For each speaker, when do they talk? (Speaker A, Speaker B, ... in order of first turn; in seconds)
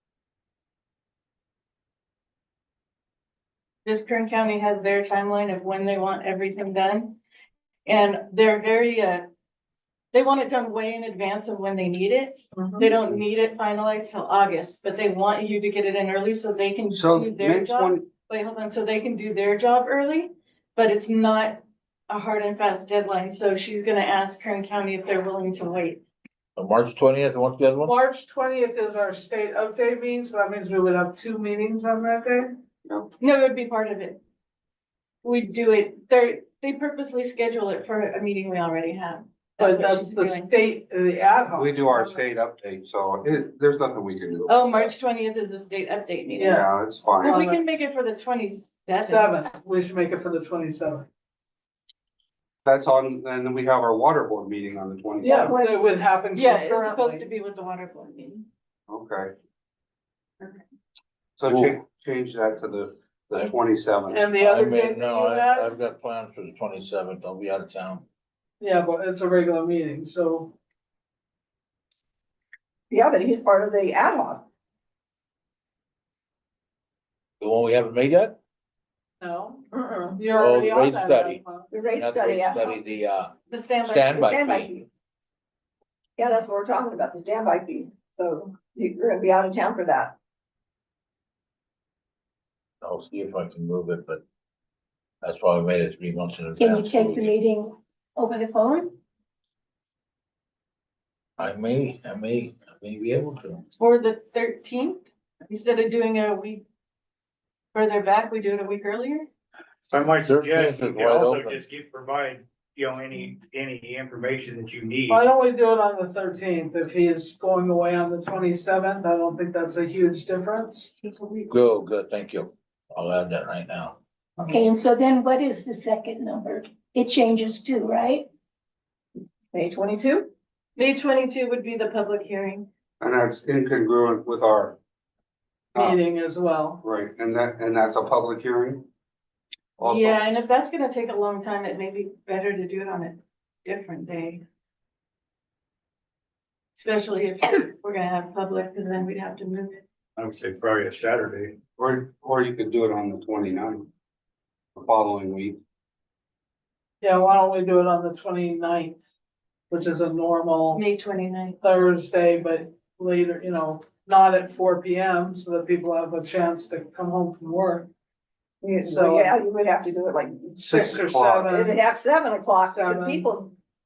Speaker A: 3.8-7.2, 7.8-9.3, 10.1-26.0, 33.2-34.2, 35.2-40.5, 44.5-46.6, 47.2-49.4, 56.3-58.4, 83.5-84.4, 103.8-106.6, 107.7-109.3, 130.8-132.7, 139.8-144.4, 146.8-149.8, 160.7-161.6
Speaker B: 12.6-12.8, 27.9-32.5, 39.6-41.6, 49.2-51.0, 55.2-57.1, 64.1-65.6, 68.6-70.5, 79.2-79.7, 80.2-81.7, 115.1-120.9, 135.8-136.8, 157.0-159.0, 159.7-160.8, 161.6-167.9, 168.8-169.3, 170.6-171.8, 172.7-173.3
Speaker C: 16.9-18.1, 32.9-33.1, 41.5-44.9, 46.5-47.4, 52.6-55.6, 58.9-59.3, 61.4-64.2, 133.0-134.8, 135.7-136.0, 136.8-138.8, 139.8-140.2, 151.8-153.9, 154.8-155.6, 170.7-171.4
Speaker D: 26.6-27.9, 61.5-61.7, 64.4-68.0, 77.4-78.4, 80.3-83.3, 83.8-84.8, 92.8-94.2, 95.2-97.3, 101.4-103.6, 110.2-111.6, 121.5-124.0
Speaker E: 72.9-74.4, 79.7-80.2, 81.7-82.7, 84.1-84.8, 86.2-90.2, 129.5-130.3, 168.6-173.5
Speaker F: 96.6-98.9, 121.0-121.3, 124.5-128.3
Speaker G: 109.9-115.3, 150.2-151.6